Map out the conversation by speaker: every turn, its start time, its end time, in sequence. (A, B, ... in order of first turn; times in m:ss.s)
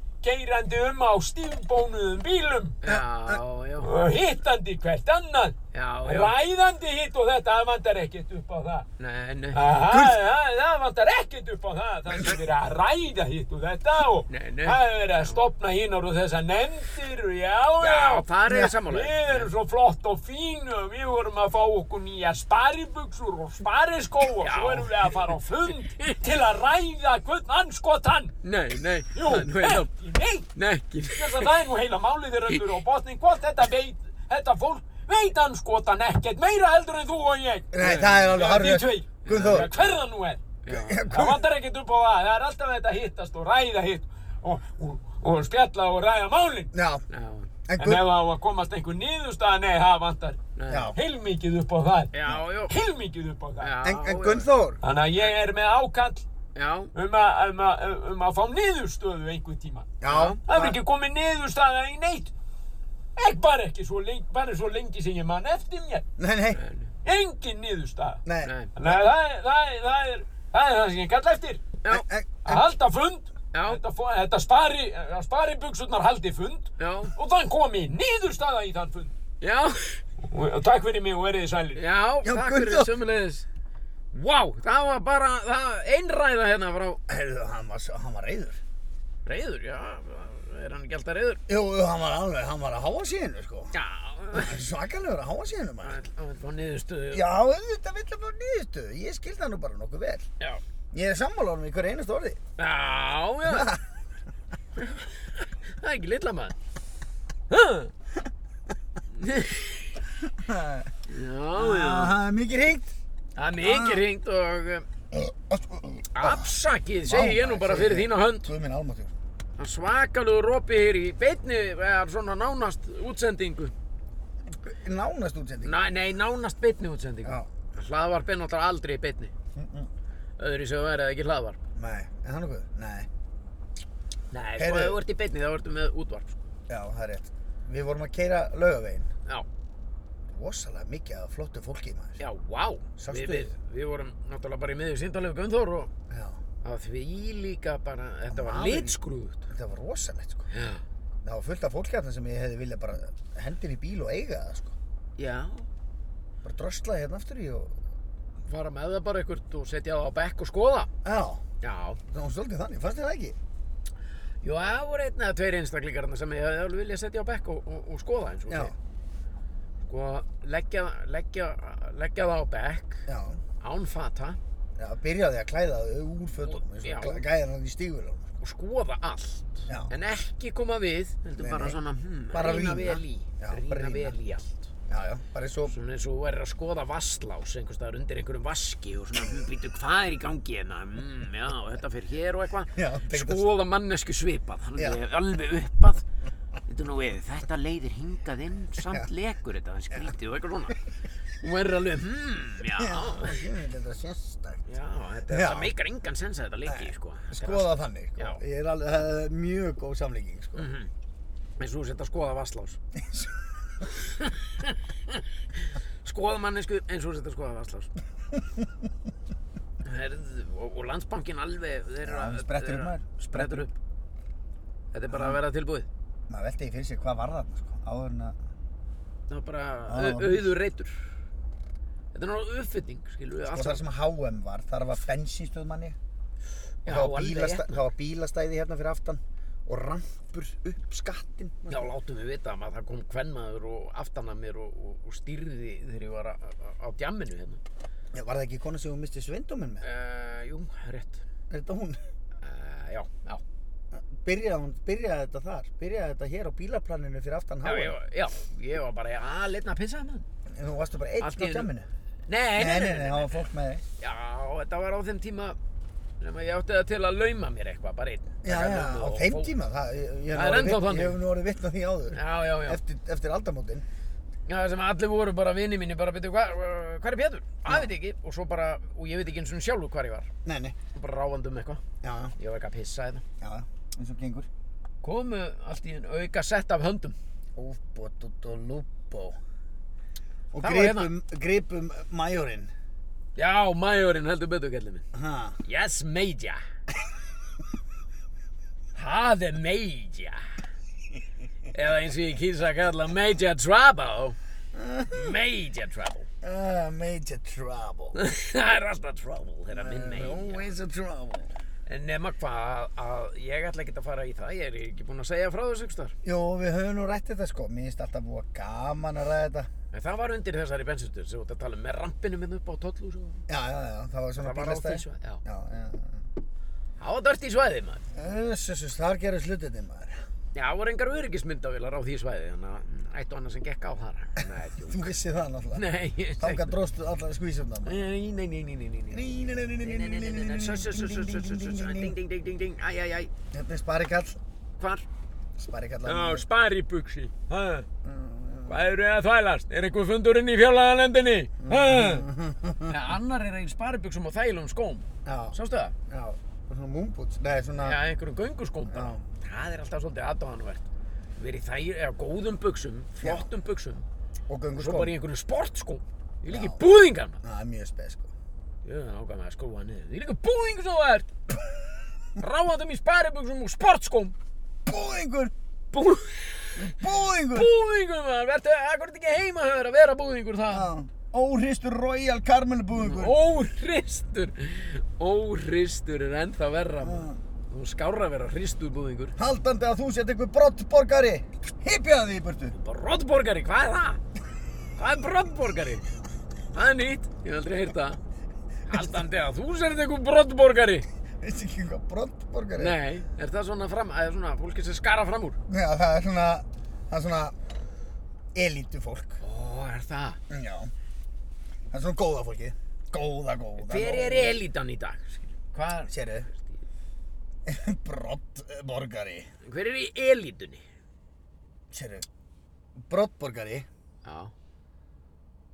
0:00.2-0:02.8 A
0:02.8-0:03.9 B
0:02.9-0:03.4 C
0:03.8-0:08.9 A
0:05.7-0:06.4 B
0:09.0-0:09.8 B
0:09.5-0:28.4 A
0:09.9-0:10.2 C
0:14.3-0:15.4 B
0:17.8-0:19.5 B
0:18.5-0:18.7 C
0:24.4-0:26.2 B
0:28.4-0:29.9 B
0:29.1-0:30.5 A
0:30.6-0:31.5 B
0:31.0-0:46.7 A
0:37.7-0:39.7 C
0:37.8-0:38.1 B
0:39.2-0:40.1 B
0:40.6-0:41.2 B
0:40.7-0:41.4 C
0:46.7-0:47.0 C
0:47.1-0:47.5 B
0:47.7-0:48.0 C
0:47.8-0:50.4 A
0:50.6-0:50.9 B
0:50.7-0:51.0 C
0:50.9-0:53.8 A
0:52.1-0:52.7 B
0:53.6-0:54.5 B
0:53.8-0:54.8 C
0:54.8-0:56.2 A
0:56.5-0:56.9 B
0:56.9-1:02.3 A
1:00.0-1:00.8 C
1:00.0-1:00.4 B
1:03.2-1:06.0 A
1:06.2-1:06.6 C
1:06.6-1:06.9 B
1:07.0-1:08.2 A
1:08.2-1:09.0 C
1:08.4-1:08.7 B
1:08.7-1:11.8 A
1:11.9-1:12.7 C
1:12.4-1:19.1 A
1:13.5-1:13.8 B
1:16.8-1:17.1 B
1:19.4-1:20.0 B
1:20.2-1:21.8 A
1:21.7-1:23.4 B
1:22.2-1:22.9 C
1:24.1-1:27.0 B
1:27.1-1:28.6 C
1:29.2-1:31.4 B
1:31.5-1:33.7 C
1:33.7-1:34.6 B
1:34.3-1:36.0 C
1:35.8-1:37.2 B
1:37.1-1:40.3 C
1:40.9-1:42.4 C
1:42.6-1:43.7 B
1:43.4-1:43.9 C
1:44.8-1:46.5 B
1:47.5-1:47.9 B
1:49.2-1:49.9 B
1:50.2-1:50.9 C
1:51.1-1:52.2 B
1:51.6-1:52.9 C
1:53.4-1:54.8 B
1:53.6-1:54.0 C
1:55.1-1:56.5 C
1:56.1-1:58.5 B
1:57.0-1:59.1 C
1:59.6-2:03.7 B
2:04.4-2:05.8 C
2:05.6-2:09.3 B
2:09.6-2:09.9 C
2:10.4-2:11.6 B
2:11.8-2:13.1 C
2:14.3-2:16.4 B
2:14.6-2:15.0 C
2:16.7-2:19.1 C
2:20.3-2:22.2 C
2:22.2-2:25.9 B
2:23.0-2:23.5 C
2:26.1-2:26.4 C
2:26.6-2:29.4 B
2:28.3-2:30.5 C
2:30.5-2:30.8 B
2:31.2-2:34.7 C
2:35.2-2:35.7 B
2:36.4-2:37.8 C
2:38.4-2:40.9 B
2:41.0-2:41.4 C
2:41.6-2:42.0 B
2:42.1-2:43.4 C
2:44.4-2:48.7 B
2:48.5-2:48.7 C
2:49.8-2:53.0 B
2:53.1-2:53.4 C
2:53.6-2:54.4 B
2:54.8-2:58.3 C
2:56.4-2:57.2 B
2:58.4-3:04.7 B
3:01.4-3:01.8 C
3:02.3-3:04.2 C
3:04.9-3:05.7 C
3:05.7-3:16.0 B
3:12.7-3:13.5 C
3:16.6-3:20.8 B
3:18.8-3:19.1 C
3:21.4-3:23.4 B
3:22.7-3:24.6 C
3:24.6-3:28.4 B
3:25.3-3:25.7 C
3:26.7-3:30.7 C
3:30.6-3:30.9 B
3:31.6-3:32.8 B
3:33.0-3:33.3 C
3:33.9-3:35.2 B
3:36.0-3:37.9 B
3:39.8-3:43.7 B
3:42.0-3:43.6 C
3:44.9-3:45.9 B
3:45.1-3:45.4 C
3:46.3-3:48.4 C
3:49.3-3:51.0 B
3:49.9-3:50.5 C
3:52.1-3:53.8 B
3:53.4-3:56.0 C
3:56.8-3:57.8 B
3:56.8-4:01.9 C
4:01.7-4:07.6 B
4:08.1-4:09.8 C
4:09.8-4:11.2 B
4:11.5-4:12.0 C
4:12.4-4:13.4 B
4:13.9-4:18.0 C
4:17.6-4:20.2 B
4:20.5-4:21.9 C
4:21.2-4:21.7 B
4:22.3-4:23.4 B
4:22.6-4:23.8 C
4:24.0-4:25.6 B
4:26.2-4:29.5 B
4:28.4-4:33.8 C
4:30.3-4:31.2 B
4:32.1-4:32.8 B
4:34.5-4:40.3 B
4:40.4-4:40.8 C
4:40.9-4:41.8 B
4:42.0-4:42.3 C
4:42.4-4:43.2 B
4:43.4-4:44.5 C
4:45.0-4:47.2 B
4:47.6-4:49.4 C
4:50.5-4:52.7 C
4:50.6-4:51.1 B
4:53.4-4:55.0 B
4:55.1-4:55.6 C
4:55.6-4:56.6 B
4:58.9-5:00.4 B
5:01.7-5:04.4 B
5:04.7-5:05.3 C
5:05.1-5:06.3 B
5:06.4-5:08.2 C
5:08.1-5:10.7 B
5:09.7-5:11.5 C
5:11.9-5:16.1 B
5:16.2-5:19.7 C
5:19.9-5:23.4 B
5:23.5-5:26.2 C
5:24.4-5:25.4 B
5:27.0-5:28.0 B
5:28.1-5:30.2 C
5:30.5-5:35.2 B
5:34.4-5:35.8 C
5:35.7-5:36.7 B
5:36.4-5:38.0 C
5:37.8-5:43.3 B
5:39.1-5:42.2 C
5:43.5-5:44.4 C
5:44.8-5:45.0 B
5:45.6-5:46.4 C
5:46.1-5:46.4 B
5:46.3-5:47.5 A
5:47.4-5:47.8 B
5:48.0-5:48.8 C
5:48.6-5:52.2 B
5:51.6-5:52.9 C
5:51.8-5:52.2 A
5:52.8-5:55.9 B
5:55.2-5:55.6 C
5:56.1-5:58.0 C
5:57.8-6:00.8 B
5:58.9-5:59.2 C
6:01.4-6:04.0 B
6:03.2-6:03.5 C
6:04.5-6:05.1 C
6:04.8-6:07.4 B
6:06.5-6:06.8 C
6:07.4-6:08.3 C
6:08.8-6:11.3 B
6:12.4-6:14.3 B
6:14.8-6:15.5 C
6:15.9-6:20.9 B
6:16.8-6:17.7 C
6:20.7-6:23.4 C
6:22.9-6:29.3 B
6:27.0-6:27.4 C
6:29.4-6:32.7 C
6:32.7-6:34.2 B
6:35.0-6:36.0 B
6:36.7-6:38.2 B
6:38.9-6:41.0 B
6:41.4-6:43.0 C
6:42.8-6:45.6 B
6:45.7-6:47.6 C
6:48.5-6:49.4 C
6:49.4-6:50.4 B
6:50.5-6:50.9 C
6:51.9-6:54.6 C
6:53.8-6:56.8 B
6:56.1-6:56.5 C
6:57.6-6:59.5 C
6:59.6-7:00.8 B
7:01.9-7:02.2 C
7:03.0-7:03.9 C
7:04.2-7:04.5 B